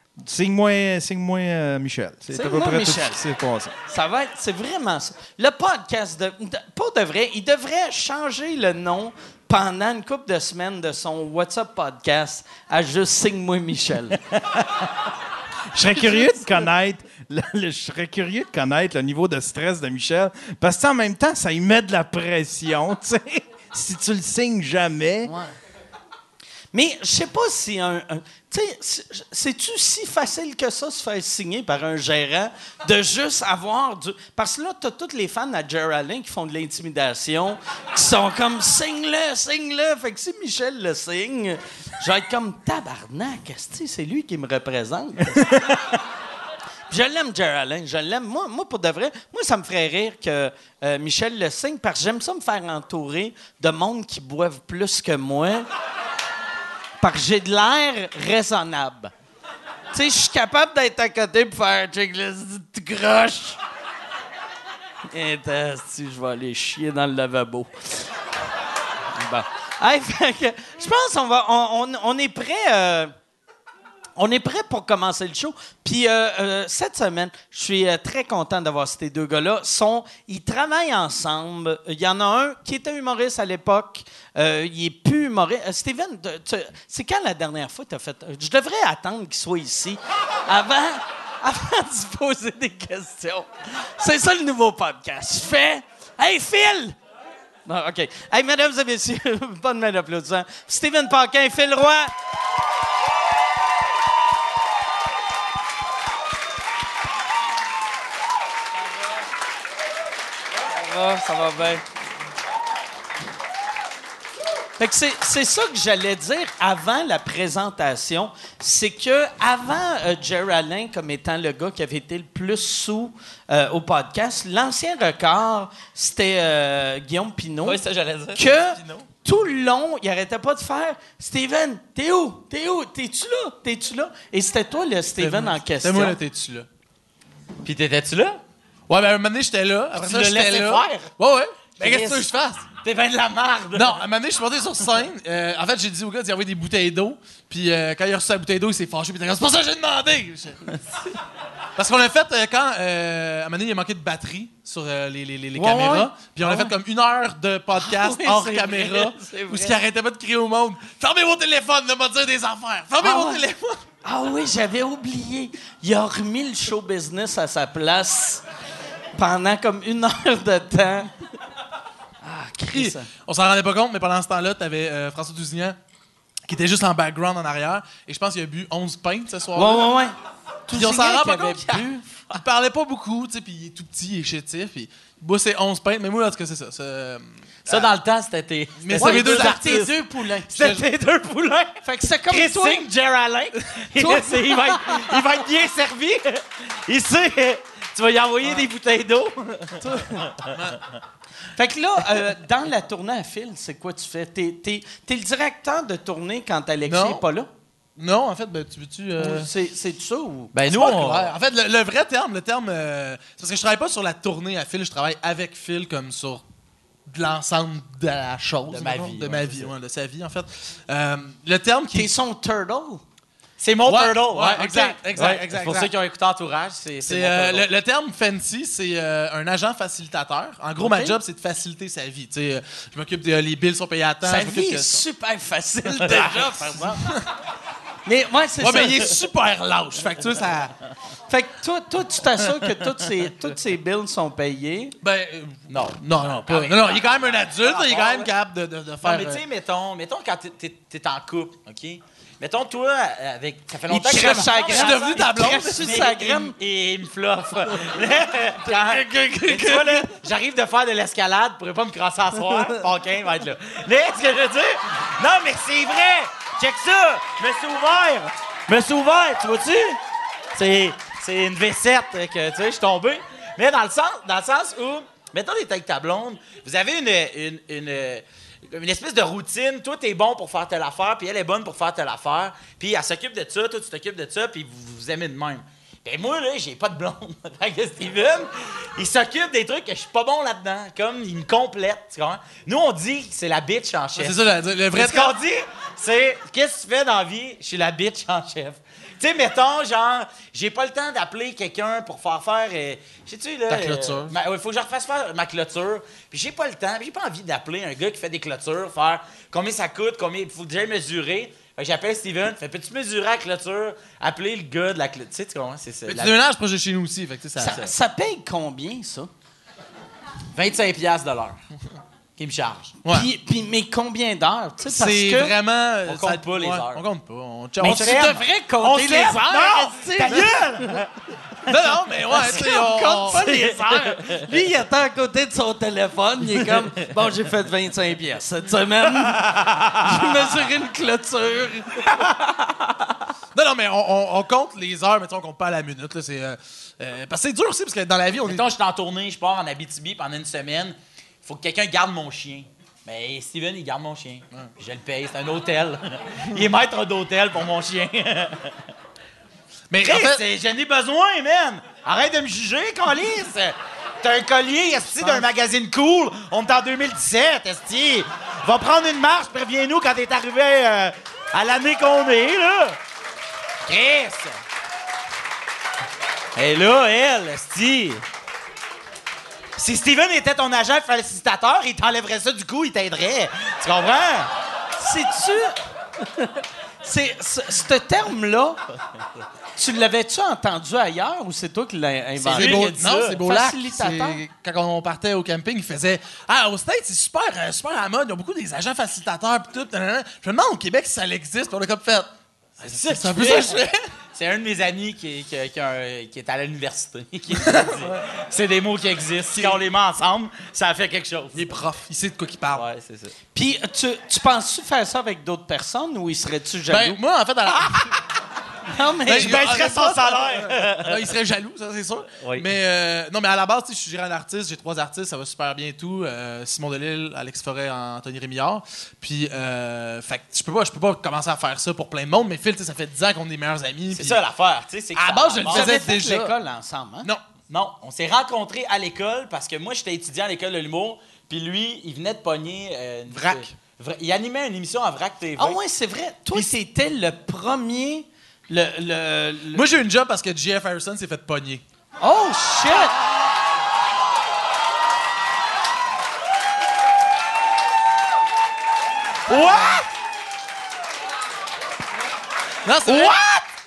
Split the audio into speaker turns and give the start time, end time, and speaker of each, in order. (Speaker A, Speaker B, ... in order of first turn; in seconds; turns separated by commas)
Speaker A: 0.2-3.7, Speaker B: 2.3-3.2, Speaker B: 3.9-14.2, Speaker A: 15.7-25.3, Speaker B: 25.3-25.5, Speaker B: 26.7-45.6, Speaker B: 46.9-55.7, Speaker B: 57.0-59.1, Speaker B: 59.9-63.6, Speaker B: 65.1-68.1, Speaker B: 69.2-73.1, Speaker B: 74.2-97.0, Speaker B: 97.7-102.1, Speaker B: 110.7-111.8, Speaker B: 114.8-127.8, Speaker C: 127.7-129.1, Speaker B: 128.3-136.2, Speaker D: 135.2-136.7, Speaker C: 137.6-138.4, Speaker D: 138.9-142.7, Speaker C: 140.0-141.1, Speaker C: 141.8-142.2, Speaker C: 142.8-144.0, Speaker D: 143.8-150.8, Speaker D: 151.8-163.8, Speaker B: 155.5-156.7, Speaker B: 157.8-159.8, Speaker B: 163.0-163.4, Speaker B: 164.0-168.4, Speaker B: 169.2-171.1, Speaker B: 172.2-173.1, Speaker D: 172.7-175.8, Speaker D: 176.5-179.9, Speaker B: 179.6-180.2, Speaker B: 180.7-182.1, Speaker D: 180.7-187.8, Speaker C: 187.7-200.5, Speaker D: 188.8-190.8, Speaker B: 188.9-190.5, Speaker B: 191.8-192.8, Speaker B: 194.0-195.0, Speaker B: 199.8-200.3, Speaker D: 200.5-200.8, Speaker B: 201.6-207.5, Speaker D: 206.9-207.2, Speaker D: 208.0-209.5, Speaker B: 209.2-210.5, Speaker C: 210.5-211.3, Speaker D: 210.7-216.4, Speaker D: 217.1-222.1, Speaker C: 218.7-219.7, Speaker B: 221.9-223.0, Speaker C: 223.6-227.7, Speaker D: 223.9-225.9, Speaker D: 227.1-235.0, Speaker B: 230.8-231.2, Speaker B: 234.2-236.9, Speaker C: 236.0-237.0, Speaker D: 236.1-237.3, Speaker B: 238.1-239.1, Speaker D: 238.6-240.7, Speaker B: 241.3-245.0, Speaker D: 245.0-249.4, Speaker C: 245.7-248.3, Speaker C: 249.0-270.0, Speaker B: 253.9-256.5, Speaker D: 254.1-256.1, Speaker B: 258.6-260.1, Speaker C: 270.5-294.4, Speaker D: 294.2-295.4, Speaker C: 294.9-316.4, Speaker D: 303.7-304.3, Speaker D: 316.1-317.8, Speaker B: 317.6-319.3, Speaker C: 320.5-321.6, Speaker C: 322.4-323.0, Speaker D: 323.0-323.3, Speaker B: 323.1-325.5, Speaker D: 324.9-328.4, Speaker C: 326.1-327.0, Speaker C: 327.8-331.1, Speaker B: 327.8-331.0, Speaker D: 331.7-333.4, Speaker B: 332.3-342.2, Speaker C: 333.3-334.4, Speaker C: 339.1-340.3, Speaker D: 343.5-348.7, Speaker C: 348.5-358.8, Speaker D: 359.9-360.4, Speaker C: 360.1-373.0, Speaker D: 365.1-365.5, Speaker C: 373.9-374.6, Speaker C: 376.6-378.2, Speaker C: 379.8-384.5, Speaker B: 385.0-385.8, Speaker B: 387.0-388.8, Speaker B: 389.8-394.4, Speaker C: 392.4-393.4, Speaker D: 392.5-402.3, Speaker D: 402.8-404.0, Speaker C: 402.9-411.7, Speaker D: 407.6-408.2, Speaker D: 409.6-409.8, Speaker D: 411.6-412.8, Speaker C: 412.8-413.3, Speaker B: 413.6-417.2, Speaker D: 416.9-418.2, Speaker C: 417.7-418.1, Speaker B: 418.9-419.9, Speaker D: 419.2-434.4, Speaker C: 419.3-421.3, Speaker C: 422.3-422.7, Speaker C: 434.1-436.1, Speaker D: 435.2-436.6, Speaker B: 435.7-437.3, Speaker C: 437.7-445.8, Speaker D: 443.3-443.7, Speaker B: 445.6-449.9, Speaker D: 449.7-451.8, Speaker B: 452.2-453.1, Speaker C: 459.5-460.1, Speaker D: 462.9-463.4, Speaker C: 463.1-463.6